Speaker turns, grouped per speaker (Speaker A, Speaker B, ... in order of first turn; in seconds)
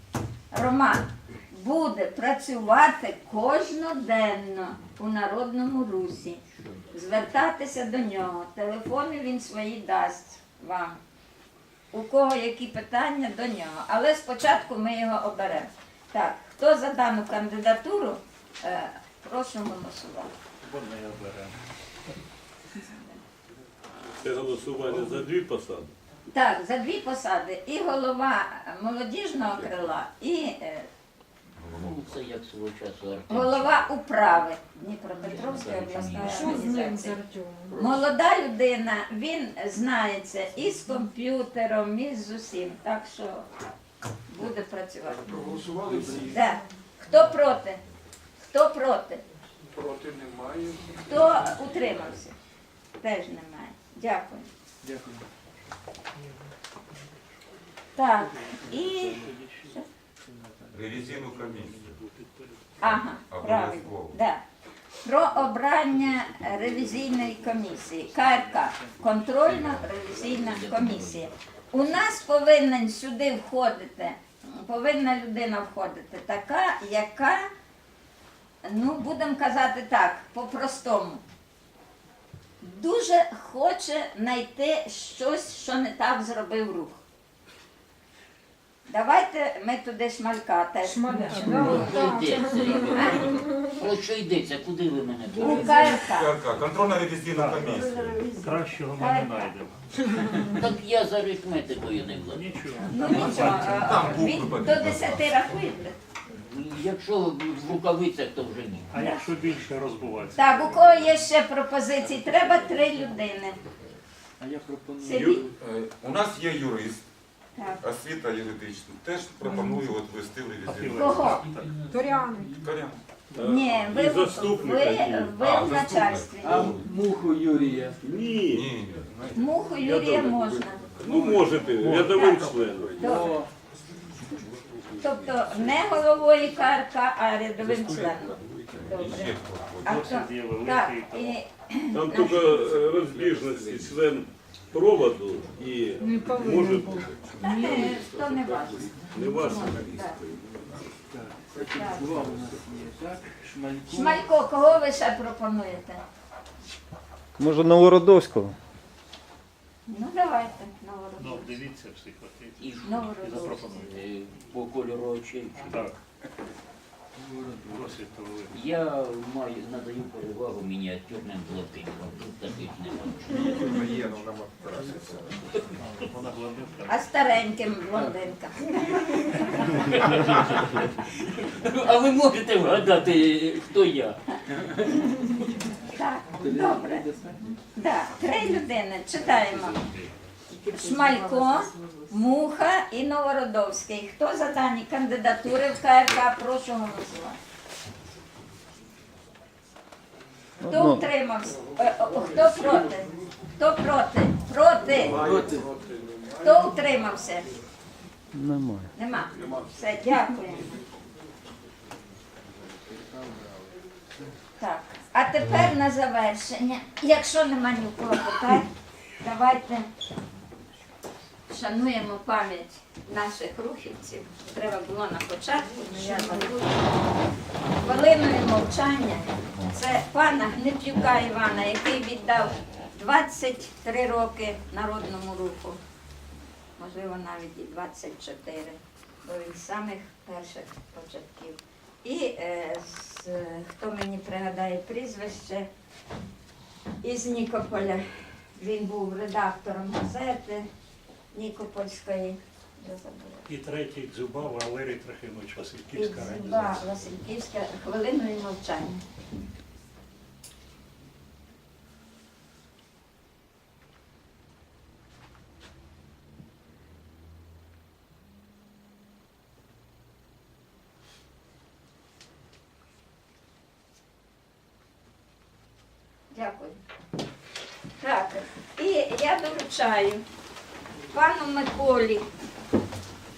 Speaker A: 0.5-6.4, 6.9-11.0, 11.9-20.3, 22.8-23.2, 26.3-30.9, 33.3-37.2, 37.7-43.5, 44.3-45.3, 46.3-47.8, 48.5-49.2, 51.0-52.4, 53.0-54.5, 58.0-59.9, 62.8-64.4, 65.0-77.5, 78.7-81.2, 82.6-87.0, 88.9-92.1, 92.7-93.3, 95.4-96.4, 97.7-99.5, 102.9-106.0, 109.0-109.3, 110.4-113.6, 115.0-115.4, 120.9-121.4, 123.4-126.8, 129.3-133.3, 135.0-142.6, 147.4-150.2, 151.7-152.1, 153.9-156.0, 159.9-161.6, 162.8-163.8, 176.9-179.9, 185.9-187.1, 187.8-189.8, 190.7-197.4, 200.7-205.4, 206.4-207.5, 208.9-210.7, 214.6-218.7, 219.2-219.9, 221.5-226.8, 227.8-235.8, 236.8-245.7, 247.0-250.7, 251.3-253.5, 255.9-259.1, 276.3-276.8, 278.0-280.2, 281.1-282.3
Speaker B: 20.6-21.6, 59.2-59.7, 60.6-62.6, 68.8-69.0, 97.3-97.8, 98.4-100.6, 102.3-103.8, 108.9-110.7, 120.7-121.8, 139.9-141.4, 161.2-164.0, 165.6-166.0, 167.7-168.6, 175.8-176.9, 253.5-256.7
Speaker C: 24.2-25.9, 123.4-125.4, 128.0-128.7, 129.8-133.0, 141.9-147.1, 149.1-150.3
Speaker D: 31.6-32.1, 60.7-61.8, 63.3-64.2, 96.1-98.2, 103.0-105.3, 115.6-117.0, 117.8-121.3, 122.6-123.0, 125.4-126.8, 128.5-129.4, 138.9-140.1, 173.4-175.2
Speaker E: 31.7-33.9, 35.2-36.7, 70.0-71.3, 91.4-96.0, 100.5-102.9, 106.4-108.9, 162.6-163.0, 163.9-165.8, 168.5-173.9, 179.7-184.2
Speaker F: 36.2-37.9, 90.8-93.7, 95.4-96.0, 121.9-122.5, 146.0-148.0, 225.9-226.5
Speaker G: 45.9-46.3, 54.8-55.2, 114.4-115.5, 126.4-128.0, 133.0-133.5, 151.1-154.2, 167.2-167.9, 186.4-187.6, 191.0-191.6, 205.1-205.7
Speaker H: 157.4-158.6, 200.6-201.1, 208.3-208.9